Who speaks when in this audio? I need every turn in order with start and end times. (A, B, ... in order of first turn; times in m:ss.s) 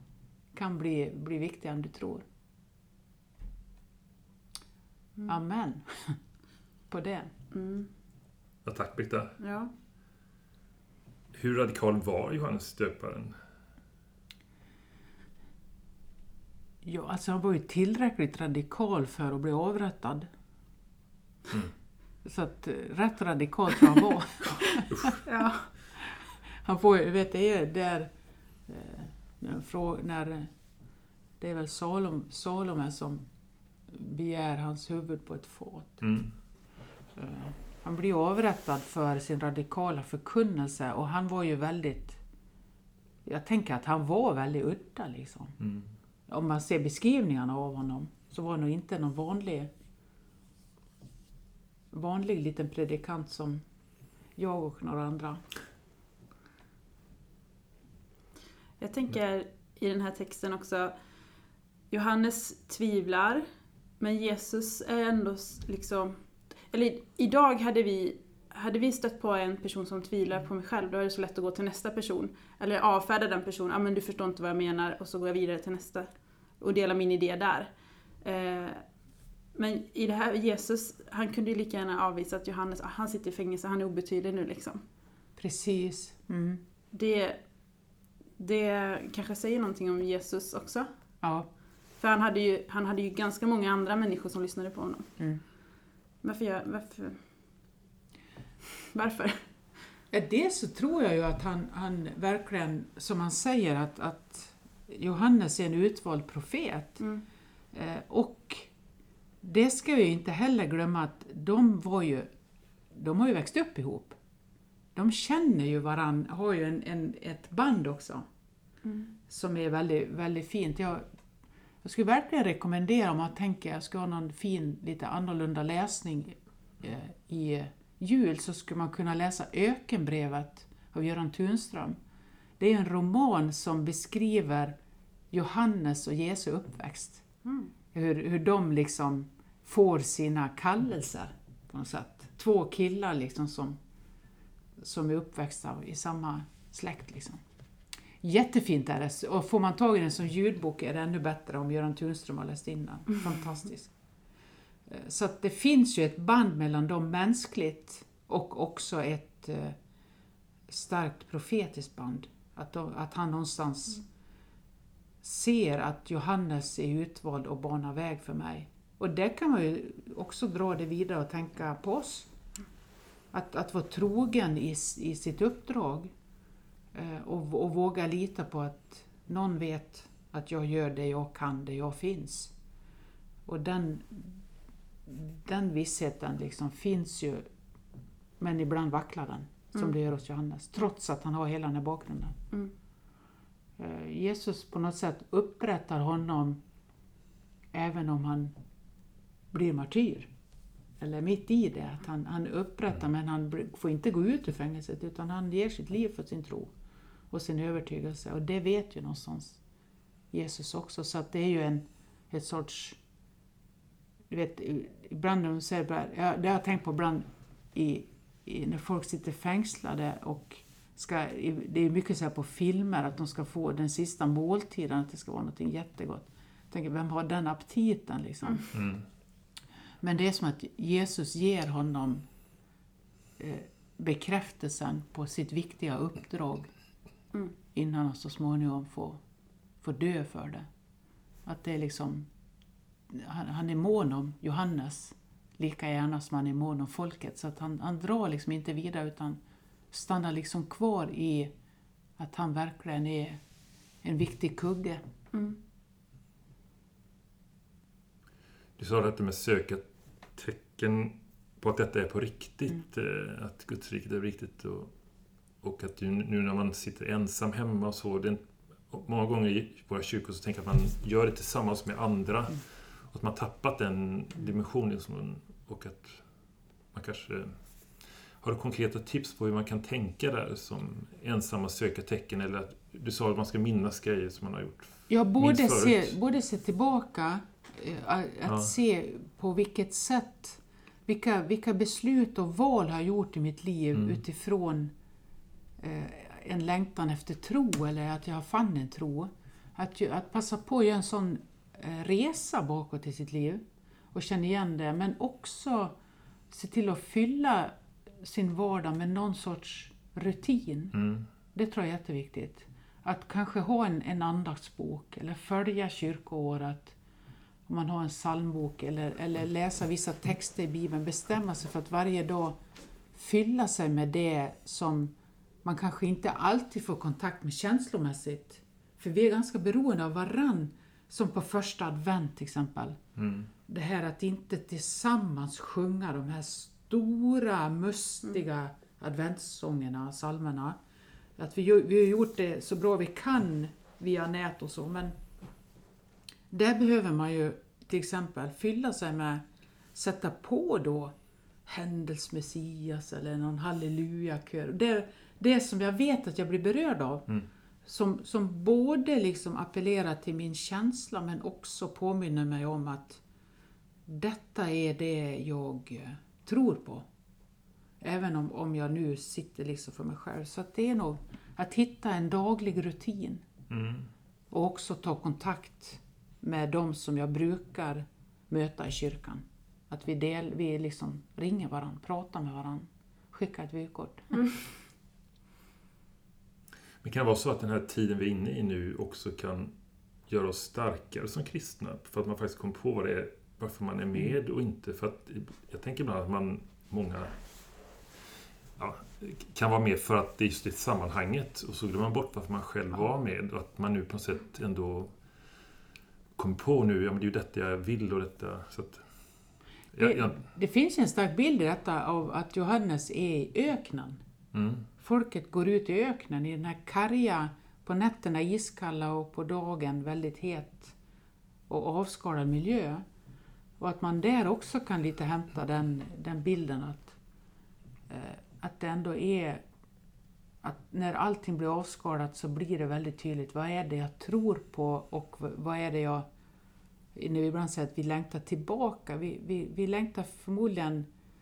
0:00.5-0:02.2 A
0:05.3-0:06.2 A
0:06.9-0:07.3 A
0:07.5-0:07.9 B
0:08.6-0:09.4 C
0:09.4-0:09.7 B
0:11.3-0:13.4 C
0:16.8-0:20.3 A
0:22.2-0:25.1 A
0:24.9-0:25.2 C
0:25.2-0:25.7 B
0:25.9-0:28.1 A
0:28.7-0:30.5 A
0:31.4-0:33.2 A
0:33.9-0:36.0 A
0:36.0-0:36.3 C
0:37.2-0:42.2 A
0:43.2-0:45.6 A
0:45.6-0:45.9 C
0:46.3-0:49.7 A
0:51.9-0:53.6 A
0:54.4-0:55.4 A
0:58.8-1:00.9 B
1:01.9-1:03.4 B
1:04.0-1:16.1 B
1:16.6-1:17.7 B
1:18.2-1:18.8 B
1:19.5-1:24.8 B
1:25.4-1:26.6 A
1:26.9-1:27.4 B
1:28.4-1:30.9 B
1:31.2-1:31.5 A
1:32.0-1:35.1 B
1:36.2-1:37.2 B
1:38.8-1:39.4 B
1:40.1-1:47.0 A
1:47.7-1:48.7 A
1:49.4-1:52.3 A
1:52.9-1:54.2 A
1:54.9-1:58.2 A
1:58.8-1:59.1 B
1:59.3-2:01.0 A
2:01.8-2:12.0 A
2:12.6-2:14.7 A
2:15.3-2:17.2 A
2:17.4-2:17.7 B
2:17.9-2:23.8 A
2:24.8-2:27.4 A
2:28.2-2:33.9 A
2:34.9-2:39.8 A
2:40.7-2:44.0 A
2:45.2-2:52.3 A
2:53.3-2:56.1 A
2:56.9-3:02.5 A
3:03.4-3:04.4 A
3:05.0-3:07.5 A
3:08.4-3:12.4 A
3:13.8-3:16.6 A
3:17.7-3:18.5 A
3:19.5-3:20.3 A
3:21.0-3:26.7 A
3:27.3-3:29.6 A
3:30.3-3:33.0 A
3:34.3-3:48.7 A
3:48.7-3:49.0 C
3:50.0-3:52.2 A
3:53.4-3:56.7 A
3:57.7-3:59.2 A
3:59.8-4:00.6 A
4:01.4-4:02.3 A
4:03.1-4:09.4 A
4:09.9-4:11.5 A
4:12.2-4:13.4 A
4:14.0-4:15.0 A
4:15.3-4:15.6 B
4:18.8-4:24.9 C
4:25.6-4:36.3 C
4:36.9-4:46.2 C
4:45.1-4:54.9 A
4:53.9-4:54.2 C
4:55.8-5:03.6 A
5:04.1-5:05.9 A
5:06.5-5:11.0 A
5:10.9-5:11.2 C
5:11.5-5:17.0 A
5:17.7-5:22.6 A
5:23.1-5:33.0 A
5:33.2-5:33.5 C
5:33.7-5:40.8 A
5:41.4-5:45.2 A
5:46.5-5:49.4 A
5:49.9-5:51.1 A
5:51.6-5:57.3 A
5:57.8-6:03.2 A
6:04.1-6:07.0 A
6:08.0-6:13.4 A
6:13.7-6:14.1 C
6:14.5-6:24.5 A
6:27.0-6:29.7 C
6:30.3-6:37.4 C
6:38.8-6:45.2 C
6:46.4-6:49.0 C
6:49.9-6:50.4 C
6:50.0-6:54.2 A
6:54.5-6:54.9 C
6:55.0-7:00.9 A
7:01.7-7:03.0 A
7:03.8-7:07.2 A
7:08.1-7:09.6 A
7:10.6-7:16.3 A
7:17.1-7:21.1 A